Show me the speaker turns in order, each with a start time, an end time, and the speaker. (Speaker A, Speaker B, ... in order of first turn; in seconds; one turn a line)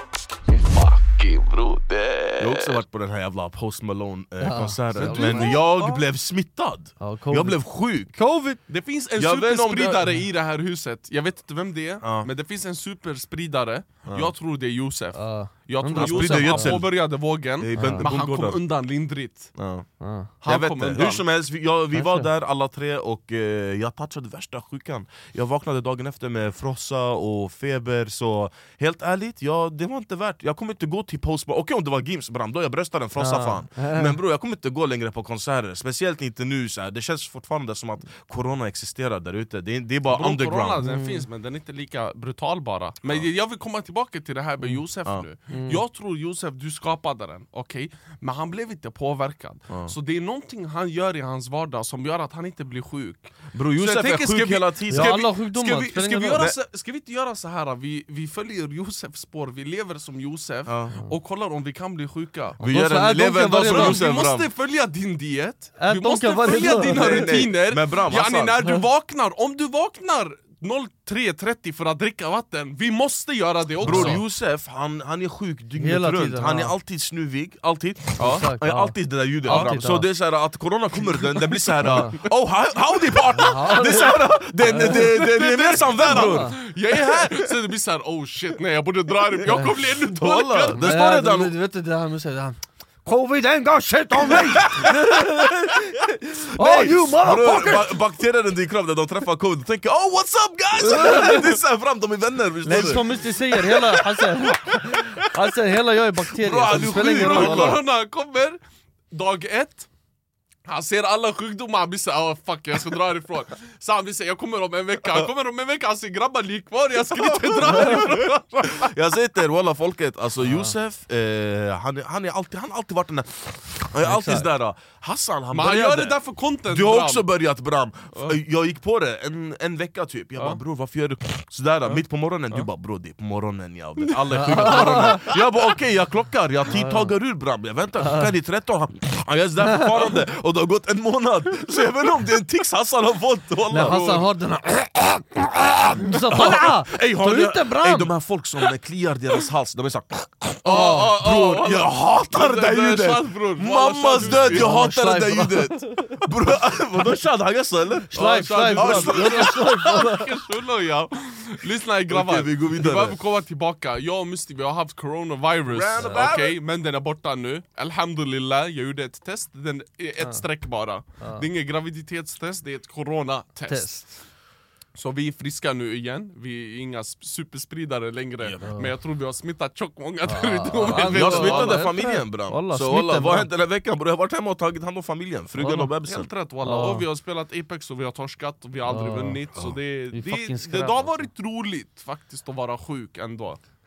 Speaker A: 0.5-2.8
Speaker B: 2.4-8.2
Speaker C: 4.4-5.6
Speaker A: 5.0-6.0
Speaker C: 7.0-8.6
Speaker A: 8.7-19.6
Speaker B: 9.2-10.1
Speaker B: 12.0-12.3
Speaker C: 15.1-16.8
Speaker B: 15.9-18.6
Speaker C: 17.8-18.1
Speaker B: 19.6-19.9
Speaker C: 20.0-20.3
Speaker A: 20.4-21.2
Speaker B: 20.4-40.8
Speaker C: 21.9-22.3
Speaker C: 33.2-34.2
Speaker A: 40.1-62.6
Speaker C: 40.8-41.3
Speaker C: 45.5-45.8
Speaker B: 53.5-55.2
Speaker C: 54.9-56.4
Speaker B: 60.7-61.0
Speaker C: 62.6-64.0
Speaker B: 62.6-64.5
Speaker A: 63.6-74.2
Speaker C: 65.8-67.3
Speaker B: 66.8-68.6
Speaker B: 73.8-87.3
Speaker C: 73.8-74.2
Speaker C: 75.8-76.7
Speaker A: 78.2-78.5
Speaker C: 78.2-80.1
Speaker A: 79.5-79.8
Speaker A: 81.5-82.0
Speaker C: 81.8-82.2
Speaker C: 83.3-85.2
Speaker A: 84.7-90.9
Speaker C: 86.0-86.6
Speaker B: 89.4-91.5
Speaker C: 90.8-98.0
Speaker B: 94.3-104.2
Speaker C: 100.8-101.6
Speaker C: 102.6-107.8
Speaker B: 104.8-105.2
Speaker B: 106.3-107.8
Speaker A: 106.7-108.6
Speaker A: 109.1-109.9
Speaker A: 110.7-118.9
Speaker B: 117.1-126.2
Speaker C: 120.4-120.7
Speaker C: 124.0-124.5
Speaker A: 125.5-127.3
Speaker B: 126.7-144.3
Speaker A: 128.1-128.4
Speaker A: 131.8-132.7
Speaker C: 134.3-135.2
Speaker A: 134.3-135.4
Speaker C: 136.7-137.2
Speaker C: 143.7-148.1
Speaker A: 143.8-144.2
Speaker B: 146.2-159.8
Speaker A: 150.6-154.9
Speaker C: 150.7-151.2
Speaker C: 154.3-156.2
Speaker C: 158.1-160.3
Speaker A: 158.1-174.1
Speaker B: 162.1-163.2
Speaker B: 165.7-166.6
Speaker C: 166.0-166.3
Speaker C: 171.2-171.5
Speaker C: 173.7-174.1
Speaker A: 175.0-181.9
Speaker B: 178.4-178.7
Speaker C: 180.3-183.5
Speaker B: 180.8-186.3
Speaker C: 185.6-185.9
Speaker A: 186.0-193.6
Speaker C: 186.6-187.1
Speaker C: 188.9-189.4
Speaker C: 190.1-191.3